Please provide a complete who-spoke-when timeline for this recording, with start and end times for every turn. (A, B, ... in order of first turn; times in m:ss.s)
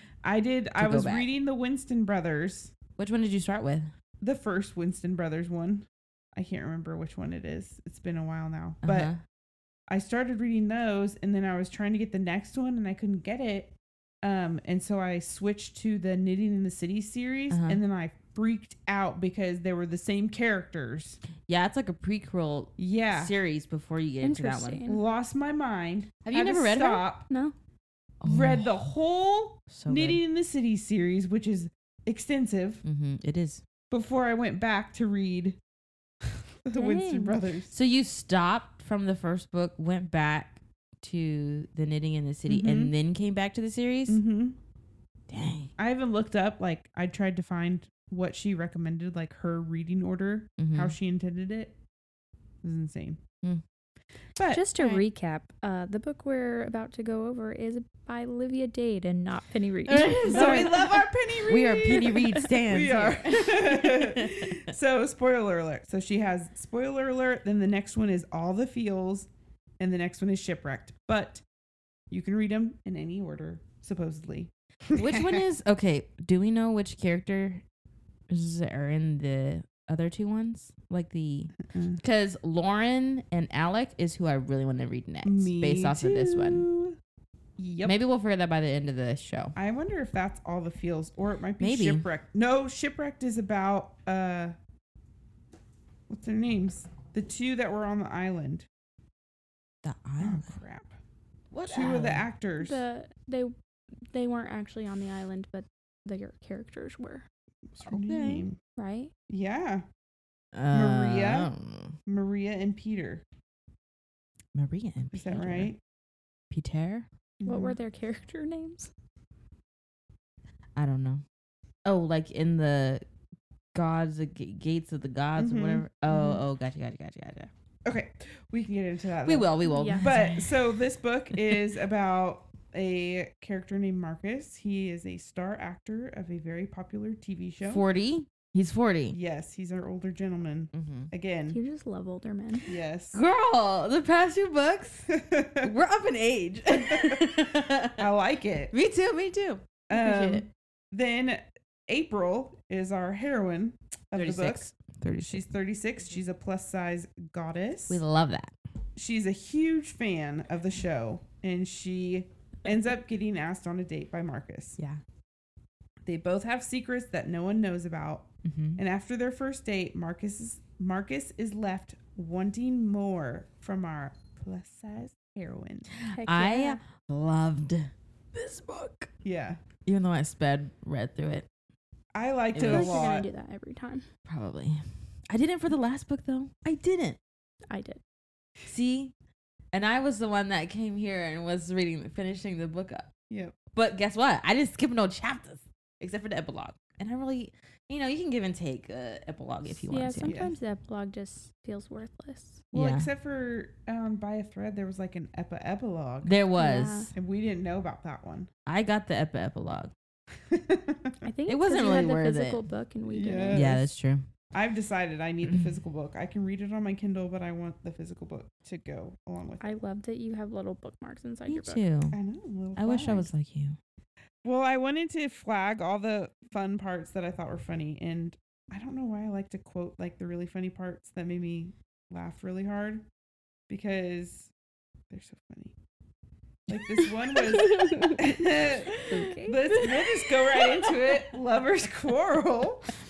0:00.2-0:02.7 A
0:00.8-0:01.3 B
0:03.0-0:03.9 B
0:04.2-0:09.1 A
0:08.8-0:09.2 B
0:09.9-0:21.2 A
0:17.5-0:17.8 B
0:21.5-0:24.8 B
0:22.8-0:23.3 A
0:24.2-0:25.0 C
0:24.8-0:27.3 A
0:26.2-0:27.1 B
0:27.3-0:27.5 C
0:28.2-0:28.8 B
0:28.2-0:32.8 A
0:29.7-0:30.2 B
0:32.8-0:33.6 B
0:33.9-0:35.6 A
0:36.2-0:37.7 A
0:36.7-0:37.4 C
0:37.7-0:44.2 B
0:42.5-0:42.9 A
0:44.1-0:44.6 A
0:45.3-0:45.7 B
0:45.8-0:51.8 A
0:50.6-0:50.9 B
0:52.6-0:53.2 A
0:54.4-0:54.6 A
0:54.5-1:00.8 C
0:54.8-0:55.0 B
0:59.9-1:00.8 B
1:00.3-1:09.3 A
1:01.4-1:04.7 B
1:09.8-1:11.4 A
1:12.1-1:15.4 A
1:15.0-1:17.6 B
1:18.3-1:26.7 B
1:21.7-1:22.0 A
1:25.2-1:27.0 A
1:27.6-1:28.0 A
1:27.8-1:29.6 B
1:29.5-1:34.6 A
1:31.6-1:32.1 B
1:36.1-1:38.7 A
1:39.8-1:40.5 B
1:40.2-1:41.0 A
1:41.5-1:42.2 B
1:41.7-1:42.8 A
1:42.6-1:43.5 C
1:44.1-1:47.3 C
1:47.7-1:48.6 A
1:47.8-1:48.5 B
1:48.8-1:49.1 C
1:49.3-1:49.8 A
1:50.5-1:52.0 B
1:50.7-1:51.5 A
1:52.0-1:53.2 A
1:54.5-1:55.7 B
1:55.1-1:55.8 A
1:56.5-1:57.1 B
1:57.4-1:57.8 A
1:57.4-1:58.9 C
2:00.8-2:01.2 B
2:01.8-2:03.0 B
2:03.7-2:07.5 B
2:05.4-2:06.4 A
2:07.8-2:17.8 A
2:09.3-2:10.5 B
2:09.7-2:10.1 C
2:17.7-2:19.2 B
2:19.1-2:21.6 A
2:20.7-2:21.1 B
2:21.5-2:22.7 C
2:22.7-2:23.2 A
2:23.1-2:25.1 B
2:25.1-2:25.7 A
2:25.6-2:28.0 B
2:26.7-2:27.4 A
2:28.0-2:28.7 A
2:28.7-2:30.4 B
2:29.9-2:34.7 A
2:34.2-2:35.4 B
2:35.2-2:38.0 A
2:37.9-2:38.5 B
2:39.0-2:44.8 A
2:46.0-2:55.9 A
2:48.4-2:48.8 B
2:56.0-2:59.1 B
2:56.1-2:56.8 C
2:59.2-2:59.6 A
2:59.8-3:01.5 B
3:02.1-3:03.3 A
3:02.5-3:03.1 B
3:02.6-3:04.0 C
3:04.2-3:07.2 B
3:07.7-3:08.0 C
3:08.6-3:09.1 B
3:09.7-3:13.1 B
3:13.3-3:13.6 A
3:13.7-3:20.4 B
3:19.8-3:22.6 C
3:20.3-3:20.5 A
3:22.7-3:26.4 A
3:22.7-3:23.1 B
3:26.2-3:27.1 B
3:26.6-3:27.1 C
3:27.1-3:28.5 A
3:28.7-3:29.9 B
3:30.5-3:31.2 A
3:31.2-3:33.7 C
3:31.5-3:32.6 B
3:33.1-3:33.9 A
3:33.5-3:34.3 B
3:34.5-3:39.8 A
3:39.6-3:41.8 C
3:41.5-3:42.2 B
3:42.1-3:43.3 A
3:42.8-3:43.8 B
3:44.4-3:53.0 A
3:53.7-3:54.5 A
3:55.1-3:55.8 A
3:56.7-4:02.8 A
3:57.4-3:58.3 C
3:58.9-3:59.9 C
3:59.7-4:01.2 B